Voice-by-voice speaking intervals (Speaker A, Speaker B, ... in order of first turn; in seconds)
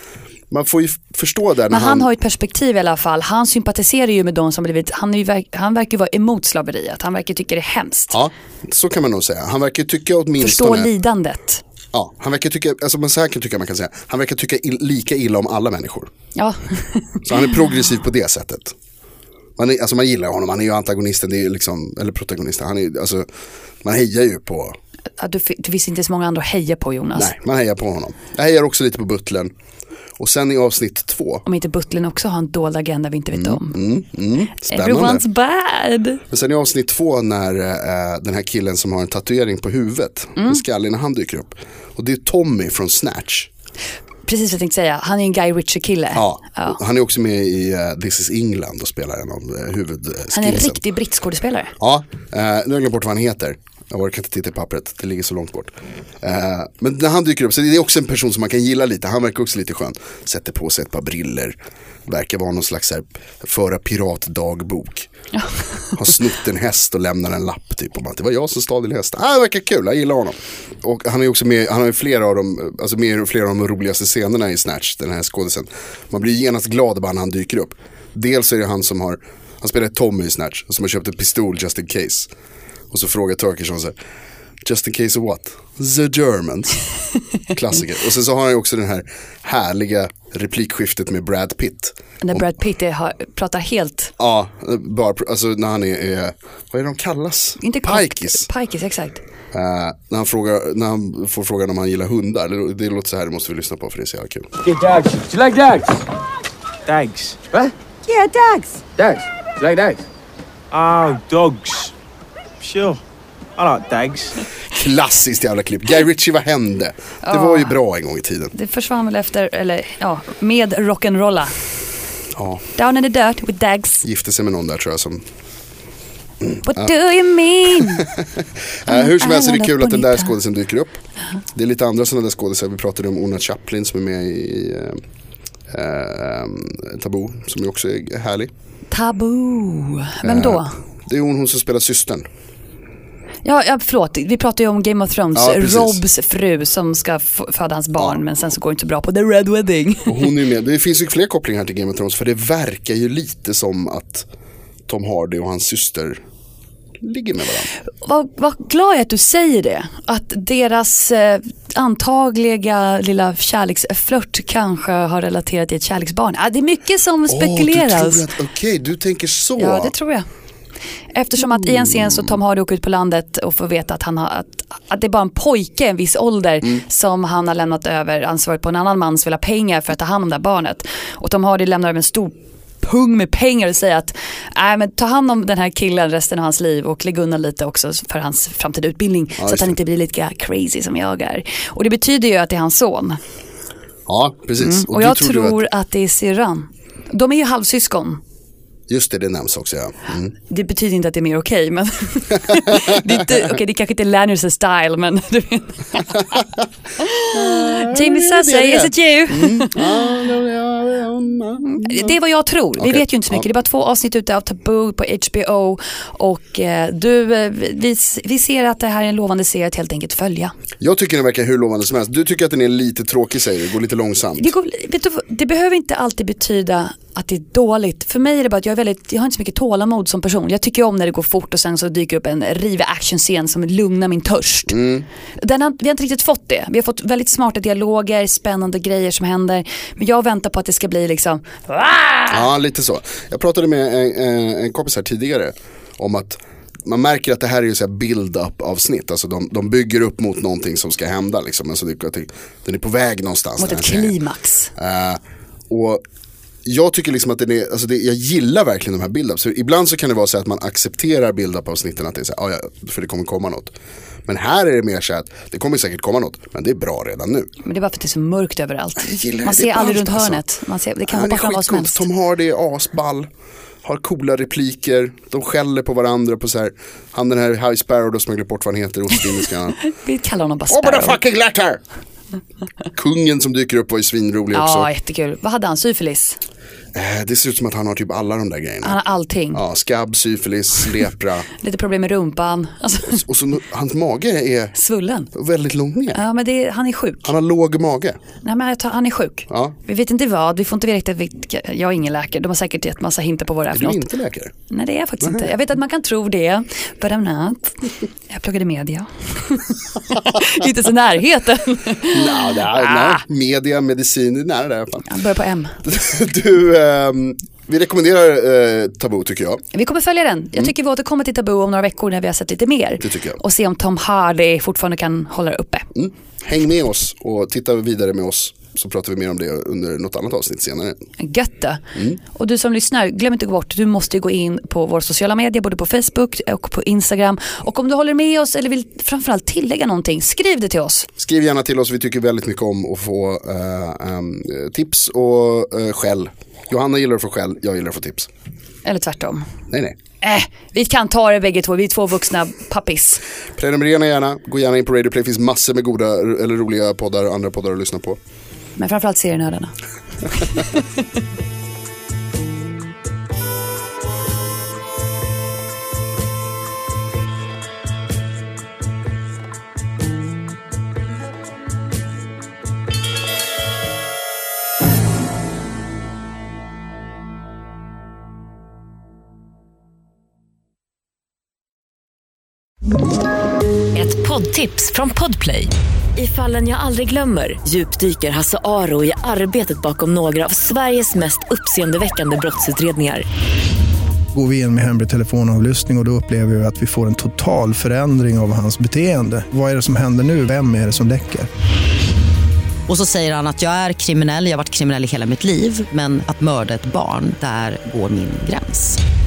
Speaker A: 0.5-2.1, 8.1-10.9, 11.9-16.1, 17.2-18.8, 19.6-23.3, 23.8-24.8, 27.1-29.5, 30.2-31.4, 33.3-35.2, 36.3-43.5, 46.1-50.8, 51.8-61.5, 62.1-65.1, 66.0-82.3, 82.9-83.9, 84.6-86.8, 87.5-92.5, 94.2-98.5, 99.5-104.5, 114.7-118.5, 122.3-122.7, 124.0-125.2, 126.4-126.9, 127.8-131.0, 131.5-135.0, 135.7-138.5, 140.2-142.3, 145.3-146.0, 150.1-154.3, 154.9-156.2, 157.0-157.7, 167.3-169.9, 171.5-172.3, 189.4-189.8, 194.1-195.6, 198.9-200.3, 202.7-203.1, 207.3-212.2, 212.8-213.4, 220.8-224.5, 234.7-235.1, 242.3-254.2, 254.8-256.0, 256.6-263.7, 264.3-267.5, 269.0-270.4, 271.1-273.3, 273.8-279.8, 280.7-281.8, 282.9-284.9, 286.9-289.0, 289.5-291.5, 293.1-294.8, 295.3-296.2, 297.2-298.2, 299.5-299.8, 303.7-304.5, 305.2-305.5, 312.1-315.1, 315.8-319.6, 323.0-323.4, 325.9-331.0, 341.2-348.3, 349.7-350.0, 353.6-358.2
Speaker B: 1.7-8.2, 10.4-11.6, 16.4-17.2, 25.2-27.3, 31.5-33.8, 34.7-36.2, 40.4-40.6, 44.3-46.8, 50.3-51.7, 92.2-94.1, 97.6-99.2, 117.2-117.8, 118.5-121.5, 122.8-124.0, 126.6-128.1, 128.9-130.3, 138.9-140.7, 143.4-150.3, 158.0-168.3, 169.6-170.3, 171.1-193.2, 194.6-198.2, 200.5-206.4, 207.0-210.1, 211.7-220.5, 224.4-234.8, 235.4-242.4, 253.6-254.7, 267.6-272.1, 279.8-281.2, 284.5-286.4, 288.8-289.6, 291.6-293.2, 294.8-295.3, 296.1-297.3, 298.4-304.1, 304.7-313.2, 315.1-315.8, 319.7-325.9, 331.2-331.8, 332.3-341.1, 348.9-349.5, 350.2-353.2, 358.8-359.7, 360.3-360.7
Speaker C: 104.7-106.0, 106.9-107.7, 109.0-110.0, 110.7-111.9, 112.6-113.0, 113.6-114.4
Speaker D: 108.1-108.9, 383.9-393.2
Speaker E: 394.3-401.5
Speaker F: 402.9-409.0